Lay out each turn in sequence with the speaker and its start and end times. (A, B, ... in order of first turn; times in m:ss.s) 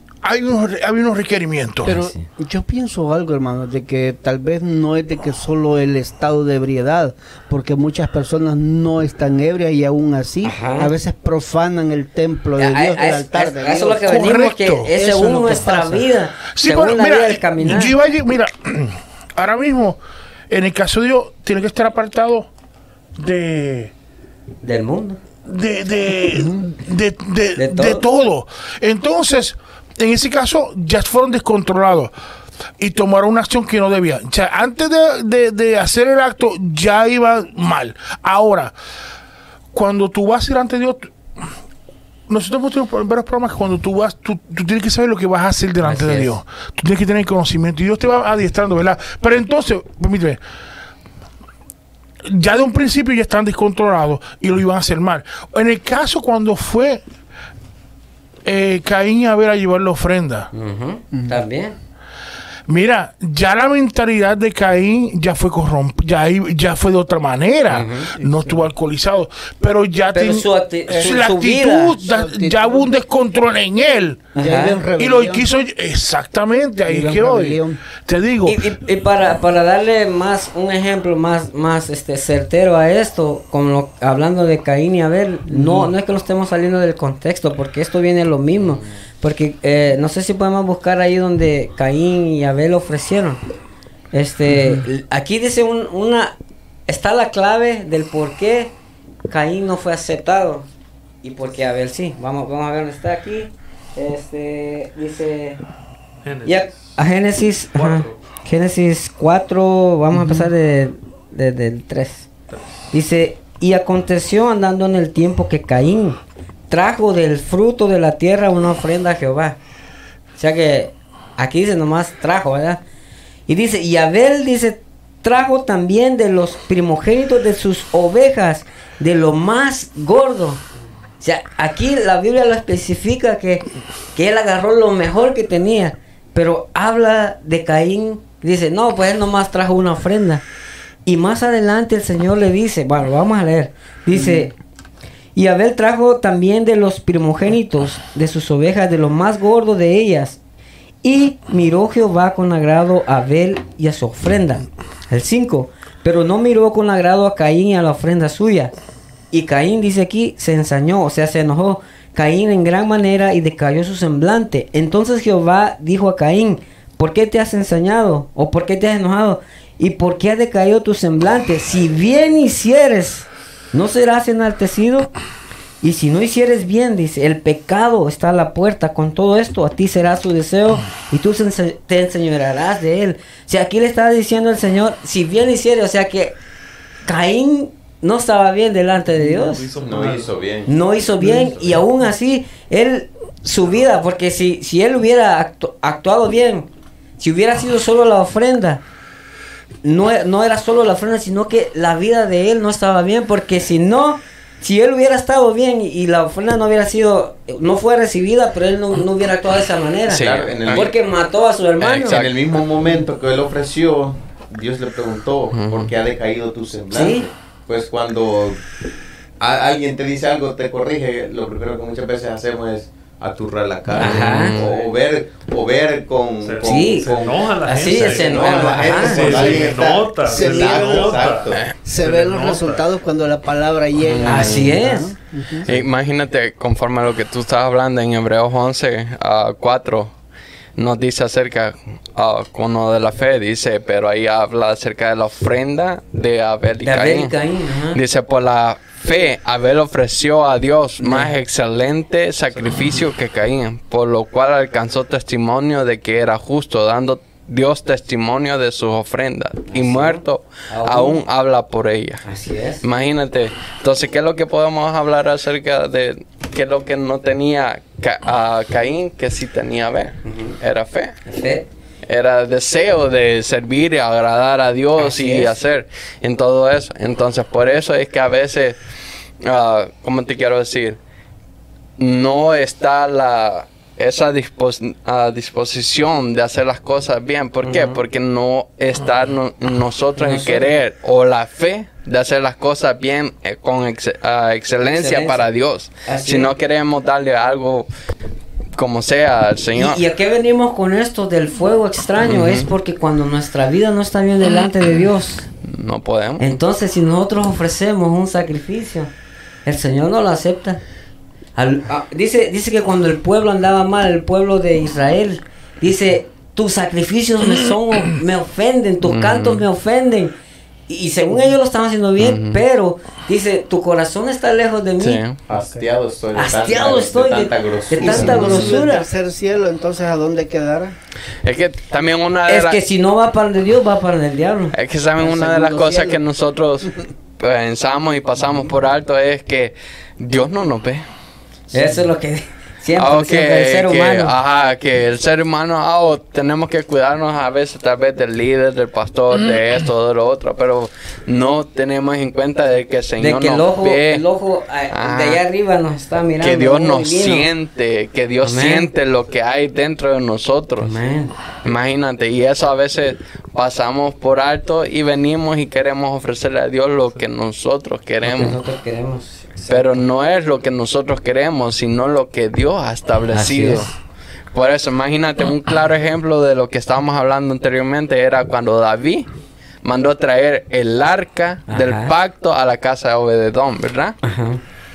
0:00.2-0:01.9 A
0:01.8-0:14.4 B
0:01.9-0:02.3 C
0:10.4-0:10.9 C
0:12.6-0:17.9 C
0:14.1-0:15.0 A
0:14.9-0:16.1 B
0:16.6-0:22.5 A
0:23.2-0:23.9 A
0:24.6-0:25.2 C
0:25.5-0:32.1 A
0:26.3-0:26.6 B
0:27.6-0:28.1 C
0:32.8-0:38.8 A
0:39.7-0:41.1 A
0:42.3-0:50.4 A
0:45.8-0:46.3 C
0:52.3-0:57.0 A
0:58.4-1:00.5 A
1:00.5-1:01.8 C
1:01.1-1:01.4 B
1:02.7-1:14.3 A
1:07.7-1:08.1 C
1:08.2-1:08.6 B
1:10.1-1:12.0 C
1:10.9-1:11.3 B
1:12.0-1:12.9 B
1:14.4-1:14.8 C
1:14.4-1:15.4 B
1:15.0-1:18.7 A
1:16.8-1:17.8 B
1:18.4-1:33.4 C
1:25.5-1:25.9 B
1:34.1-1:36.4 C
1:34.5-1:34.9 B
1:36.9-1:38.7 C
1:39.3-1:40.7 C
1:41.2-1:45.6 C
1:46.2-1:46.9 D
1:46.4-1:52.3 C
1:47.8-1:48.2 D
1:50.1-1:50.5 B
1:52.9-1:56.2 C
1:56.7-1:59.6 C
2:00.4-2:02.8 C
2:03.5-2:10.6 C
2:11.2-2:20.4 C
2:21.0-2:24.5 C
2:24.1-2:24.5 B
2:25.4-2:30.4 C
2:31.0-2:38.7 C
2:39.3-2:55.1 C
2:55.8-3:06.4 C
3:07.0-3:09.6 C
3:09.2-3:10.3 D
3:09.8-3:10.7 E
3:10.7-3:18.8 C
3:11.2-3:11.6 B
3:19.8-3:32.2 C
3:30.1-3:30.9 F
3:30.1-3:30.9 E
3:31.8-3:32.3 F
3:32.0-3:38.6 E
3:35.5-3:35.9 F
3:36.9-3:37.3 C
3:39.4-3:51.6 E
3:43.9-3:44.7 F
3:44.0-3:44.6 C
3:44.5-3:44.9 D
3:46.4-3:52.8 D
3:46.6-3:47.1 C
3:47.6-3:49.5 C
3:50.2-3:51.2 B
3:51.8-3:55.7 B
3:54.0-3:54.7 F
3:54.2-3:55.1 C
3:55.6-4:00.1 F
4:00.8-4:07.3 F
4:06.8-4:08.0 C
4:07.9-4:22.2 F
4:11.0-4:11.3 C
4:19.7-4:21.2 C
4:22.2-4:22.8 C
4:22.8-4:31.2 F
4:30.3-4:30.6 C
4:31.3-4:31.7 C
4:32.1-4:38.8 F
4:35.0-4:35.6 C
4:39.4-4:41.0 F
4:42.0-4:57.9 F
4:47.6-4:48.0 C
4:50.2-4:50.7 C
4:54.9-4:55.5 C
4:56.0-4:56.5 C
4:58.8-5:00.0 F
4:59.8-5:05.5 C
5:02.2-5:02.7 F
5:05.6-5:06.4 F
5:06.4-5:09.1 C
5:09.6-5:10.8 C
5:11.6-5:20.4 C
5:19.0-5:19.7 F
5:20.9-5:25.2 C
5:22.2-5:22.6 F
5:25.0-5:25.4 F
5:25.5-5:28.9 E
5:26.3-5:29.0 C
5:28.0-5:31.0 B
5:31.4-5:32.8 F
5:32.5-5:34.8 C
5:34.7-5:41.0 F
5:35.2-5:36.2 B
5:41.7-5:42.0 B
5:41.7-5:44.3 C
5:43.0-5:54.2 F
5:53.2-5:57.5 C
5:54.9-5:55.4 F
5:56.4-6:01.0 F
5:58.4-5:58.9 C
6:00.8-6:01.3 C
6:01.6-6:08.6 F
6:08.2-6:10.0 C
6:09.7-6:13.9 F
6:13.3-6:13.9 C
6:14.5-6:19.3 F
6:19.8-6:24.2 F
6:21.7-6:22.1 C
6:24.2-6:24.6 C